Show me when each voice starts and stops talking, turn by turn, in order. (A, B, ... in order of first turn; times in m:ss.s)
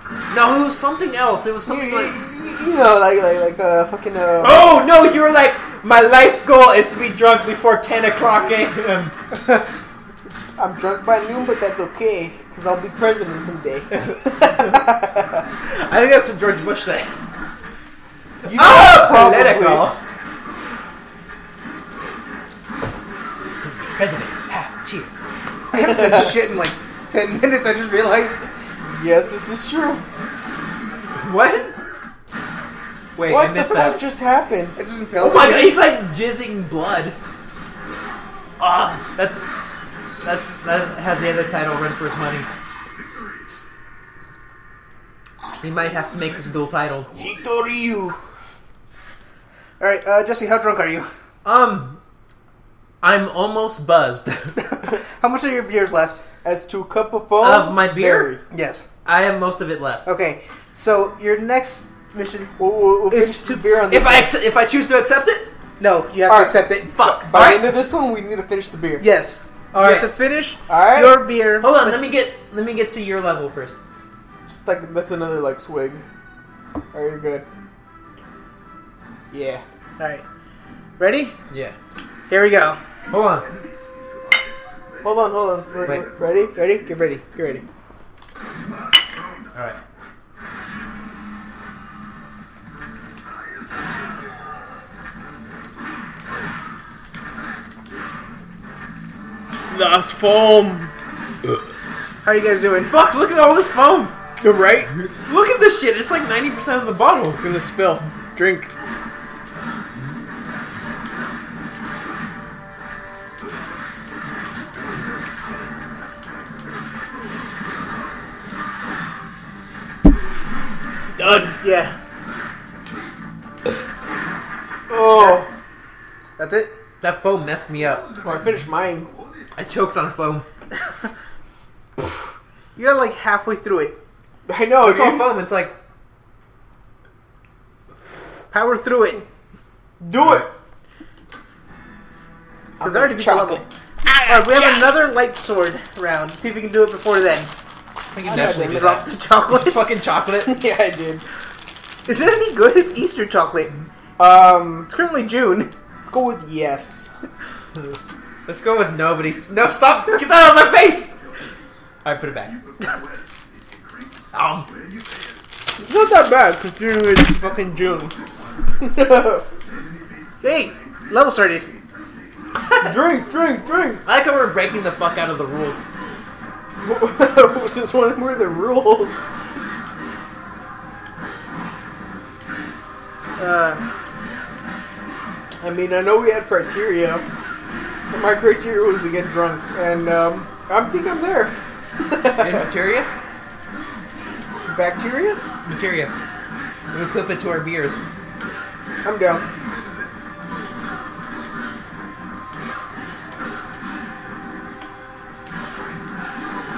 0:00.3-0:02.2 A
0:01.7-0:04.7 B
0:04.4-0:09.1 A
0:09.3-0:09.6 C
0:10.2-0:15.4 B
0:13.9-0:14.8 A
0:15.7-0:17.1 A
0:18.4-0:19.9 B
0:18.5-0:20.0 A
0:23.8-0:25.2 A
0:25.7-0:26.4 B
0:25.7-0:28.4 C
0:28.9-0:30.0 B
0:31.2-0:31.8 A
0:33.2-0:34.0 A
0:33.3-0:34.8 B
0:34.8-0:35.8 C
0:35.2-0:37.2 A
0:38.6-0:39.4 A
0:40.2-0:42.5 A
0:45.6-0:47.1 A
0:47.1-0:48.2 B
0:49.8-0:51.1 C
0:51.4-0:52.0 A
0:53.0-0:54.6 A
0:54.6-0:56.2 C
0:56.4-0:58.4 B
0:57.4-0:58.3 A
0:58.5-0:58.8 C
0:59.0-1:00.0 A
1:00.1-1:03.6 C
1:02.6-1:04.3 B
1:03.9-1:05.5 A
1:05.8-1:06.9 C
1:06.3-1:09.0 B
1:06.9-1:07.8 A
1:09.0-1:12.0 C
1:09.7-1:10.1 A
1:10.7-1:11.2 B
1:11.6-1:13.8 A
1:14.5-1:16.0 B
1:16.9-1:17.4 B
1:19.3-1:19.6 B
1:20.0-1:20.2 C
1:21.0-1:21.4 C
1:21.5-1:21.8 A
1:22.3-1:22.8 C
1:23.1-1:23.5 A
1:25.0-1:27.6 B
1:39.7-1:40.9 B
1:42.2-1:43.0 C
1:42.9-1:44.1 A
1:44.4-1:44.9 B
1:45.2-1:47.4 A
1:47.4-1:48.7 B
2:01.2-2:01.5 B
2:01.3-2:02.0 C
2:04.9-2:05.5 B
2:05.1-2:05.4 C
2:06.4-2:06.7 C
2:07.0-2:08.1 A
2:08.2-2:09.1 B
2:09.6-2:10.5 A
2:12.8-2:14.0 C
2:14.5-2:15.3 B
2:14.8-2:15.8 A
2:18.5-2:19.2 C
2:20.0-2:20.5 B
2:20.1-2:20.5 A
2:22.8-2:23.6 B
2:22.8-2:23.6 C
2:24.1-2:24.9 A
2:24.2-2:27.5 C
2:28.1-2:30.6 A
2:28.2-2:29.8 C
2:30.4-2:31.2 B
2:32.1-2:33.7 C
2:34.2-2:34.9 B
2:34.9-2:35.7 C
2:36.1-2:37.1 B
2:38.5-2:41.2 A
2:42.0-2:42.6 A
2:44.3-2:44.7 A
2:45.8-2:48.2 B
2:48.8-2:49.4 B
2:50.4-2:51.7 C
2:52.8-2:54.0 B
2:54.0-2:55.8 A
2:56.8-2:59.3 B
3:03.4-3:03.8 C
3:05.6-3:07.3 B
3:08.1-3:12.7 B
3:12.4-3:13.1 A
3:14.7-3:15.4 B
3:15.6-3:16.1 A
3:16.9-3:18.0 A
3:19.0-3:19.5 B